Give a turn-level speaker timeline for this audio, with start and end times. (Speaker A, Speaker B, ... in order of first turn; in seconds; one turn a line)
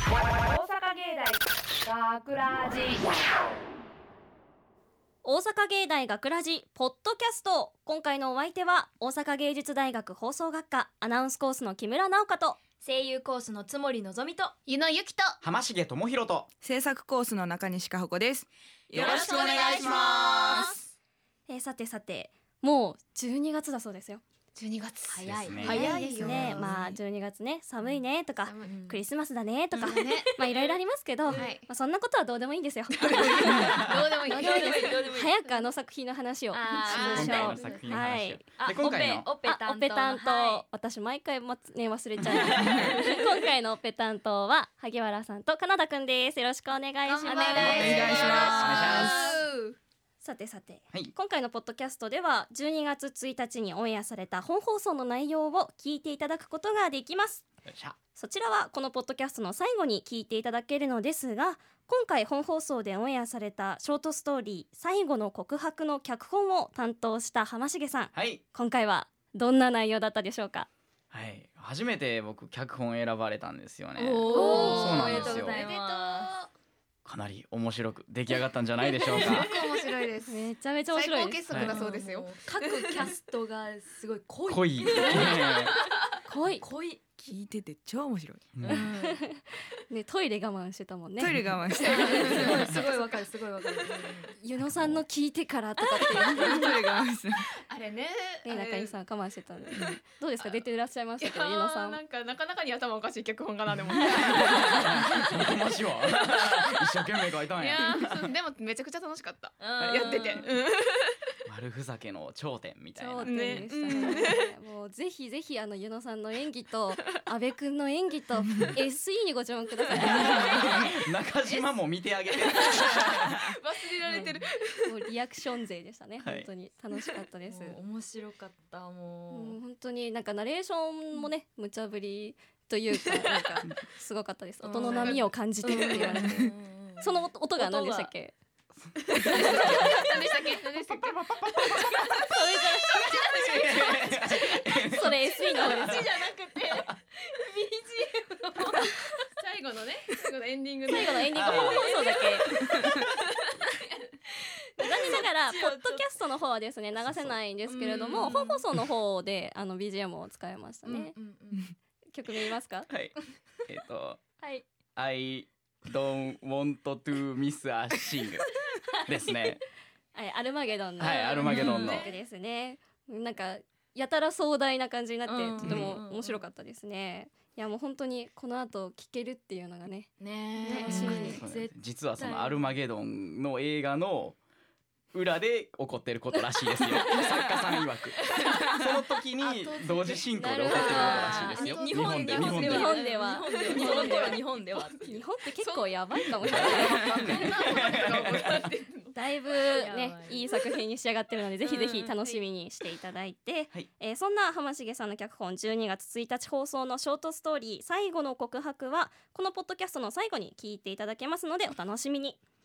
Speaker A: 0.3-3.2
Speaker B: 5.2-12.6
Speaker C: 12.8-14.5
Speaker D: 14.7-15.4
Speaker E: 15.4-16.5
Speaker F: 16.6-20.8
Speaker E: 18.9-20.7
Speaker D: 19.1-20.3
Speaker B: 21.5-24.2
Speaker D: 24.6-26.6
Speaker C: 25.1-26.2
Speaker E: 25.2-25.9
Speaker B: 25.9-38.4
Speaker F: 26.2-27.0
Speaker D: 28.4-28.7
Speaker C: 28.6-29.0
Speaker D: 29.7-30.7
Speaker D: 31.3-31.7
Speaker D: 33.0-35.5
Speaker C: 34.2-35.3
Speaker C: 36.5-37.6
Speaker D: 36.7-37.9
Speaker E: 37.0-39.3
Speaker C: 38.6-40.6
Speaker B: 39.4-49.4
Speaker D: 47.0-49.8
Speaker E: 47.5-49.3
Speaker F: 47.6-49.1
Speaker B: 50.2-57.5
Speaker E: 57.6-58.0
Speaker B: 58.1-70.7
Speaker E: 68.1-68.4
Speaker E: 71.1-75.6
Speaker C: 74.0-76.3
Speaker D: 74.3-76.5
Speaker B: 74.3-75.2
Speaker E: 77.0-79.5
Speaker D: 79.0-83.1
Speaker B: 80.2-81.4
Speaker E: 81.5-81.8
Speaker C: 81.6-85.7
Speaker E: 84.5-85.8
Speaker B: 86.3-86.6
Speaker C: 86.6-87.0
Speaker F: 87.2-88.5
Speaker C: 88.6-89.2
Speaker B: 88.7-92.5
Speaker F: 91.2-92.4
Speaker C: 91.8-94.3
Speaker D: 91.9-93.2
Speaker B: 94.4-96.8
Speaker E: 94.6-95.0
Speaker F: 96.1-97.5
Speaker D: 97.7-99.0
Speaker B: 98.5-102.0
Speaker D: 101.2-105.7
Speaker E: 104.0-108.3
Speaker D: 106.3-111.3
Speaker C: 109.6-110.5
Speaker E: 111.5-113.6
Speaker B: 113.0-120.8
Speaker D: 113.2-114.5
Speaker D: 120.0-120.9
Speaker E: 120.1-123.6
Speaker D: 122.3-124.9
Speaker C: 124.1-124.5
Speaker B: 124.9-127.8
Speaker E: 126.2-126.5
Speaker C: 127.5-129.6
Speaker B: 129.3-138.3
Speaker D: 133.1-133.5
Speaker D: 134.6-136.5
Speaker C: 134.8-138.1
Speaker D: 139.0-146.9
Speaker B: 139.3-139.7
Speaker E: 139.3-139.8
Speaker E: 140.9-142.3
Speaker B: 142.3-143.2
Speaker E: 143.4-145.1
Speaker B: 144.8-146.1
Speaker C: 147.2-148.9
Speaker D: 149.4-151.8
Speaker B: 150.9-152.6
Speaker E: 151.3-151.9
Speaker C: 151.4-152.7
Speaker D: 152.5-153.9
Speaker B: 154.8-161.1
Speaker C: 154.8-156.1
Speaker E: 157.0-157.3
Speaker C: 157.7-158.6
Speaker C: 160.8-161.7
Speaker B: 162.1-162.9
Speaker E: 162.9-163.1
Speaker E: 163.7-164.2
Speaker C: 164.4-164.6
Speaker E: 164.9-169.6
Speaker B: 170.1-180.1
Speaker E: 171.0-172.0
Speaker C: 171.4-172.0
Speaker D: 171.6-172.2
Speaker C: 175.2-176.4
Speaker E: 175.7-175.9
Speaker C: 180.2-182.7
Speaker D: 180.6-181.3
Speaker B: 180.7-181.4
Speaker E: 181.2-184.4
Speaker E: 185.1-193.0
Speaker D: 188.2-191.8
Speaker B: 190.3-194.4
Speaker C: 190.7-195.2
Speaker D: 193.0-195.0
Speaker B: 195.0-197.4
Speaker D: 195.6-199.1
Speaker E: 196.4-198.7
Speaker B: 199.1-212.4
Speaker C: 199.6-200.4
Speaker C: 201.6-202.4